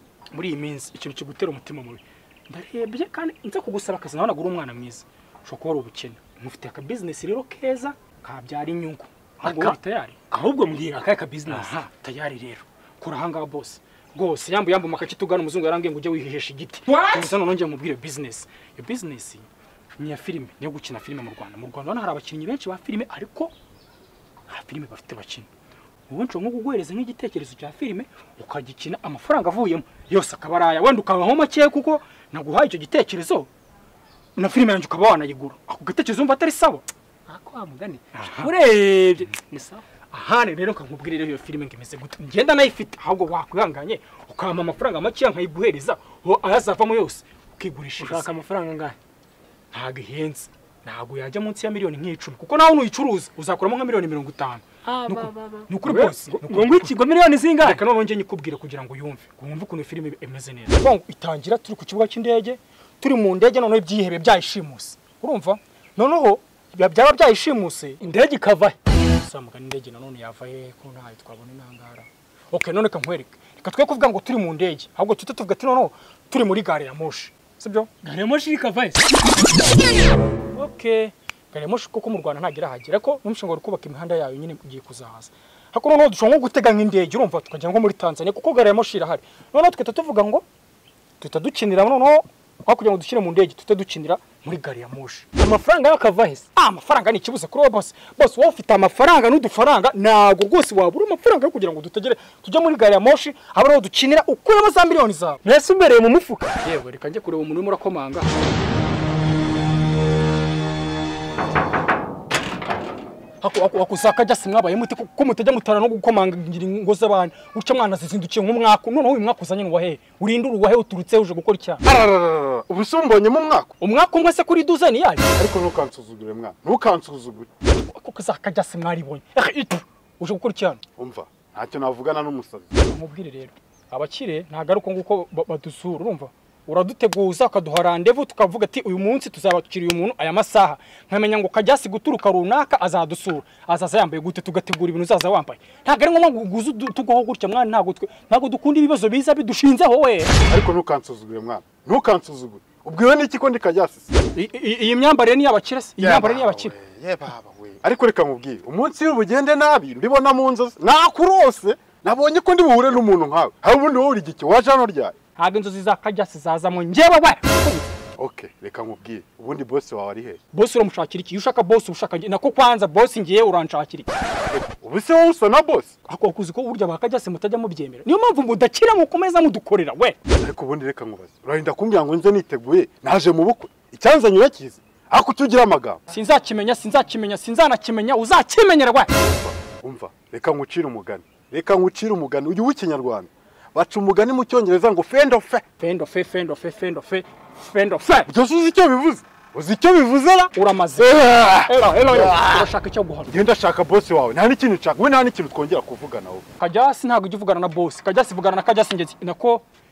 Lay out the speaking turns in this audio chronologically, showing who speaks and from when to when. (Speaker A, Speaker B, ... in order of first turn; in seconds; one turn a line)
Speaker A: 0.3-10.2
Speaker B: 9.4-9.8
Speaker B: 10.3-11.8
Speaker A: 11.4-23.5
Speaker A: 24.5-25.5
Speaker A: 26.1-33.5
Speaker A: 34.4-36.9
Speaker B: 37.3-39.8
Speaker A: 38.1-38.5
Speaker A: 40.1-48.3
Speaker B: 48.0-49.0
Speaker A: 49.7-57.0
Speaker B: 54.8-57.8
Speaker A: 57.6-68.0
Speaker B: 68.0-68.8
Speaker A: 69.1-78.0
Speaker B: 78.0-79.0
Speaker A: 80.5-90.5
Speaker A: 91.2-95.3
Speaker B: 95.3-96.4
Speaker A: 96.5-105.4
Speaker B: 105.4-106.6
Speaker A: 106.6-108.4
Speaker A: 113.4-121.8
Speaker C: 121.8-123.7
Speaker A: 123.8-125.3
Speaker C: 125.3-127.5
Speaker A: 127.7-130.8
Speaker C: 131.0-132.8
Speaker A: 132.9-150.3
Speaker C: 150.5-154.1
Speaker A: 154.3-156.7
Speaker C: 156.0-165.1
Speaker A: 165.3-167.9
Speaker C: 168.2-170.4
Speaker A: 170.5-174.1
Speaker C: 174.5-175.9
Speaker A: 176.1-180.2
Speaker C: 180.3-186.0
Speaker A: 186.1-189.1
Speaker C: 189.2-195.6
Speaker A: 195.8-198.3
Speaker C: 198.3-200.5
Speaker A: 200.5-203.3
Speaker C: 201.1-202.7
Speaker C: 203.3-206.4
Speaker A: 206.6-209.6